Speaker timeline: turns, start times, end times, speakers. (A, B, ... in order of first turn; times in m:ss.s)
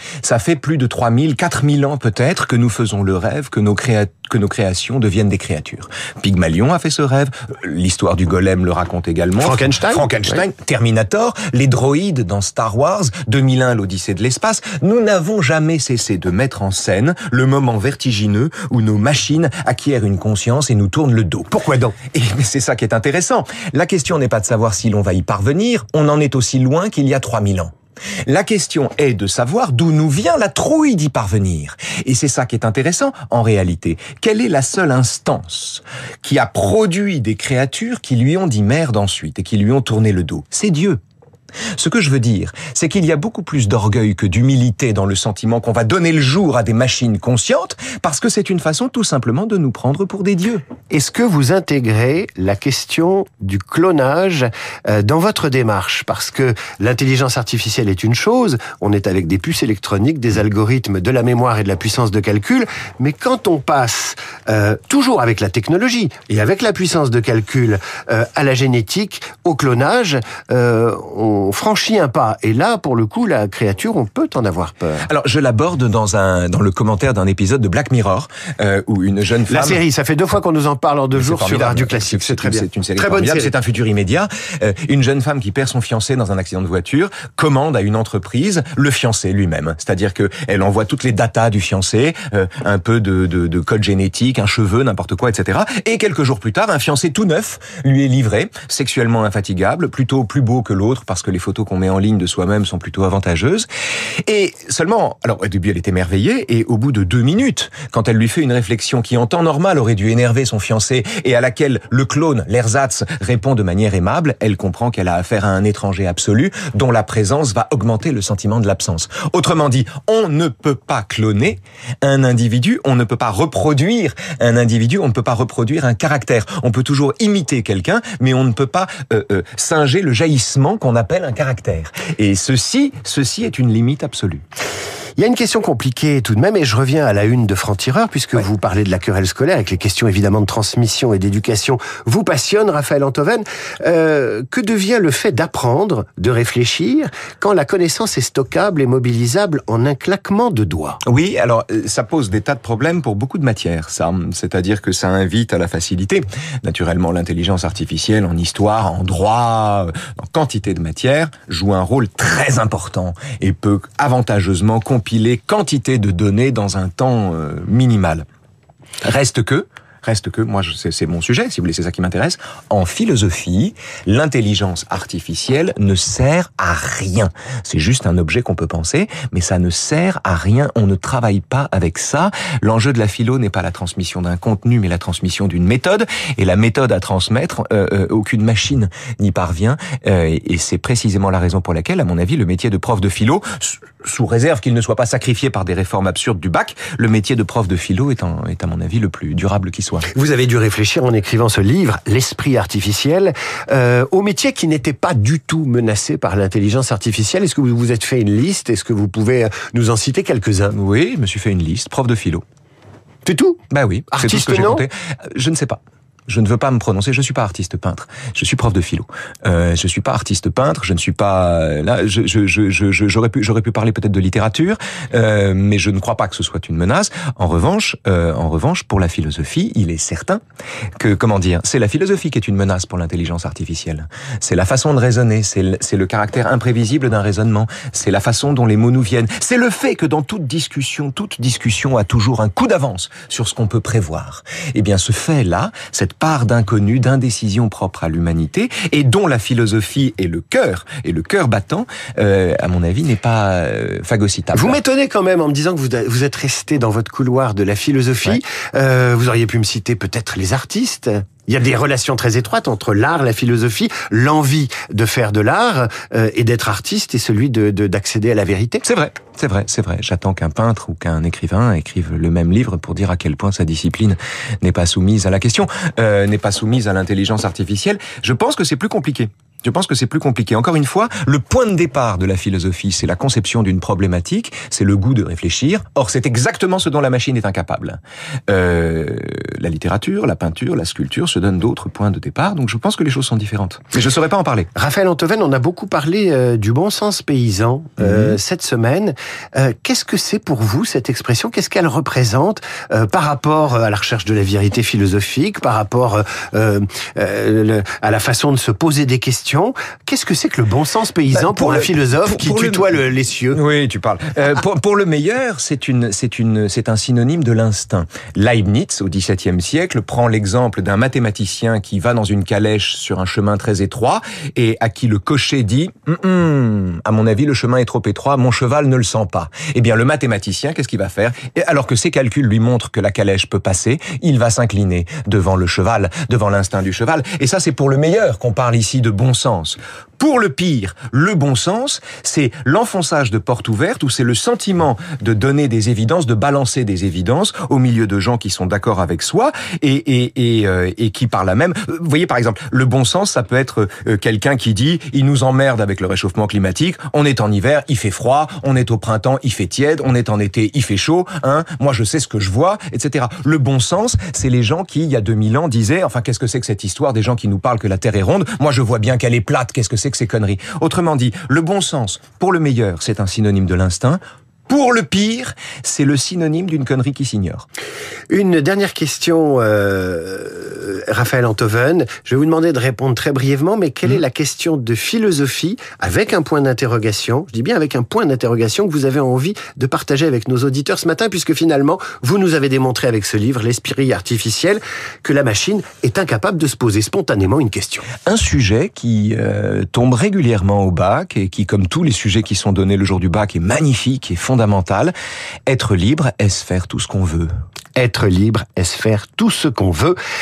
0:00.2-0:27.7 A
0:09.4-0:10.4 B
0:28.3-0:41.0 A
0:41.8-0:50.6 A
0:50.9-1:15.1 B
1:15.0-1:19.8 A
1:19.5-1:23.5 B
1:21.1-1:43.7 A
1:44.2-2:14.4 A
2:15.2-2:31.0 B
2:31.0-2:48.2 A
2:49.0-3:20.1 A
3:20.1-3:30.7 B
3:30.7-3:32.4 A
3:33.2-3:34.8 B
3:33.7-3:50.4 A
3:51.0-4:14.8 A
4:14.5-4:28.8 B
4:28.8-4:54.7 A
4:54.7-5:13.6 B
4:58.0-4:58.4 A
5:11.3-5:12.9 A
5:13.5-6:17.6 A
6:18.3-6:38.1 B
6:38.2-6:45.1 A
6:45.7-6:47.5 A
6:48.0-6:50.2 B